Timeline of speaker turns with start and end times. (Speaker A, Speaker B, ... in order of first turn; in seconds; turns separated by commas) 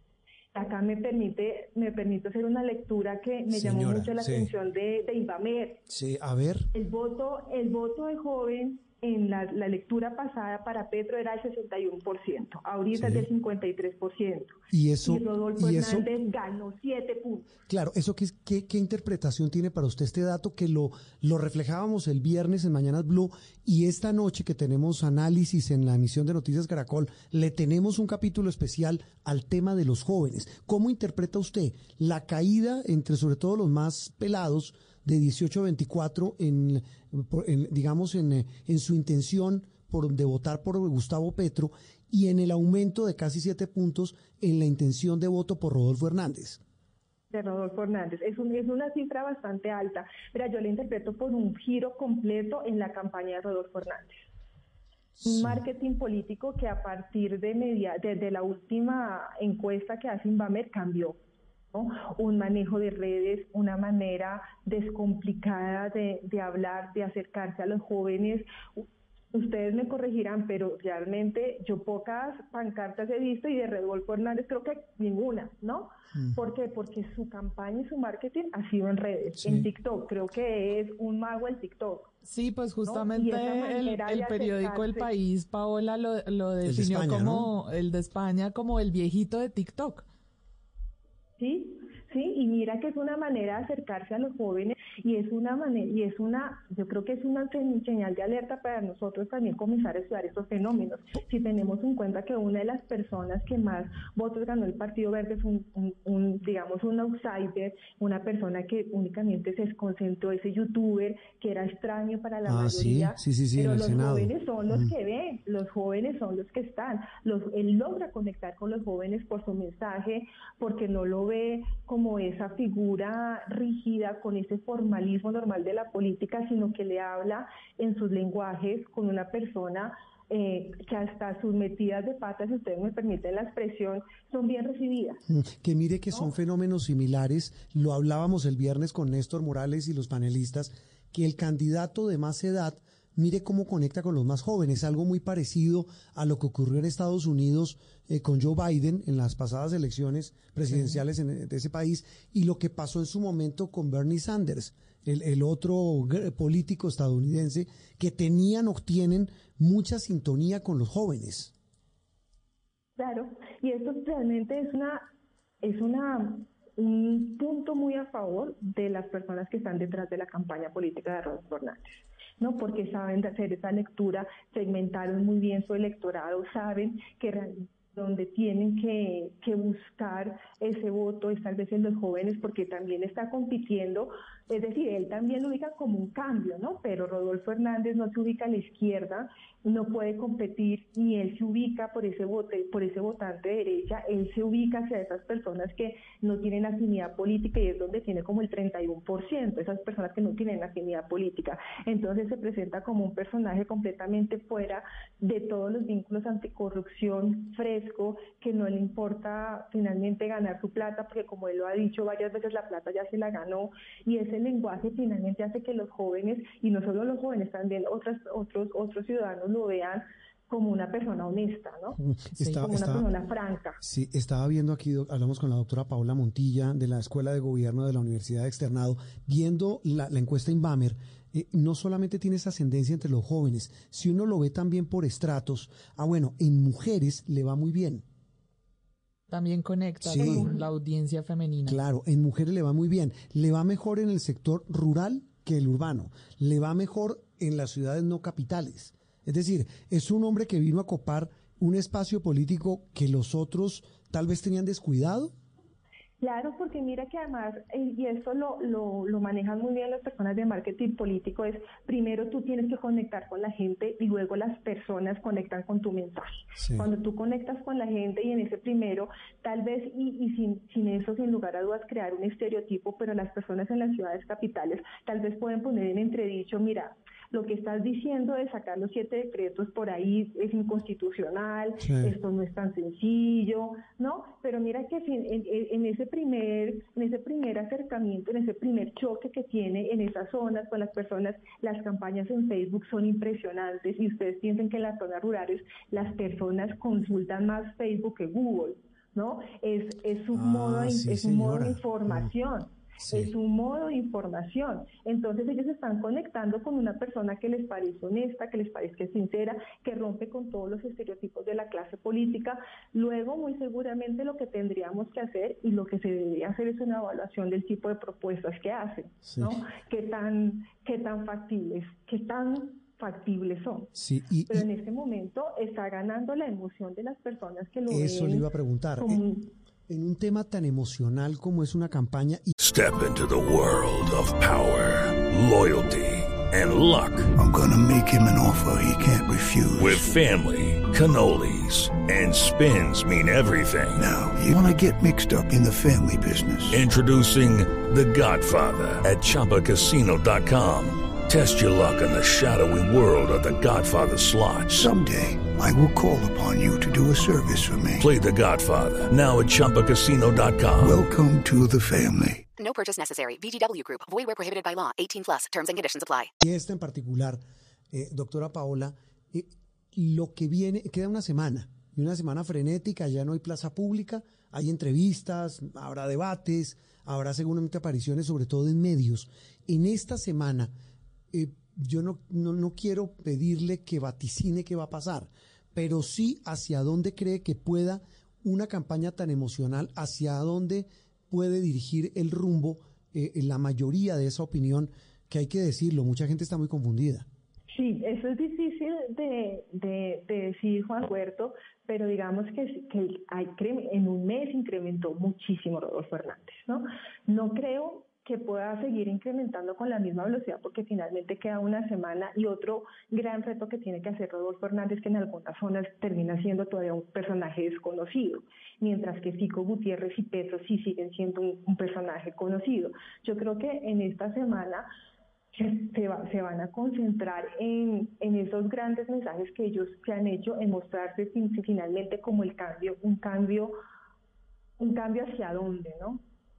Speaker A: 0.5-5.8, Speaker B: 3.5-4.5, Speaker B: 5.9-6.7, Speaker A: 6.7-17.5, Speaker B: 12.9-13.3, Speaker B: 14.7-16.1, Speaker B: 17.7-46.6, Speaker A: 47.3-54.3, Speaker B: 55.2-55.6, Speaker A: 55.3-61.2, Speaker A: 61.7-82.1, Speaker B: 79.4-79.7, Speaker C: 82.2-90.0, Speaker A: 82.9-85.1, Speaker B: 86.7-87.5, Speaker A: 91.4-135.2, Speaker B: 112.5-114.9, Speaker B: 135.3-161.5, Speaker C: 150.7-151.0, Speaker A: 163.0-165.0, Speaker A: 165.6-222.0, Speaker B: 222.0-223.1, Speaker C: 222.4-222.6, Speaker A: 222.6-223.8, Speaker B: 223.8-238.1, Speaker C: 239.3-241.8, Speaker B: 240.0-240.5, Speaker B: 241.7-255.3, Speaker A: 256.2-323.9, Speaker B: 266.6-266.9, Speaker B: 281.8-282.1, Speaker B: 300.3-302.3, Speaker B: 303.0-303.3, Speaker B: 319.3-319.6, Speaker B: 323.9-324.7, Speaker A: 324.5-328.5, Speaker B: 327.9-329.2, Speaker A: 329.0-329.5, Speaker B: 329.9-332.5, Speaker D: 332.6-337.3, Speaker E: 337.4-340.1, Speaker D: 339.8-344.0, Speaker E: 344.0-346.8, Speaker D: 346.7-354.9, Speaker E: 354.7-358.1, Speaker D: 358.0-361.0, Speaker E: 360.8-362.5, Speaker F: 362.6-366.3, Speaker B: 366.4-380.7, Speaker B: 381.3-397.3, Speaker A: 397.7-424.9, Speaker A: 425.5-433.7, Speaker A: 434.8-436.2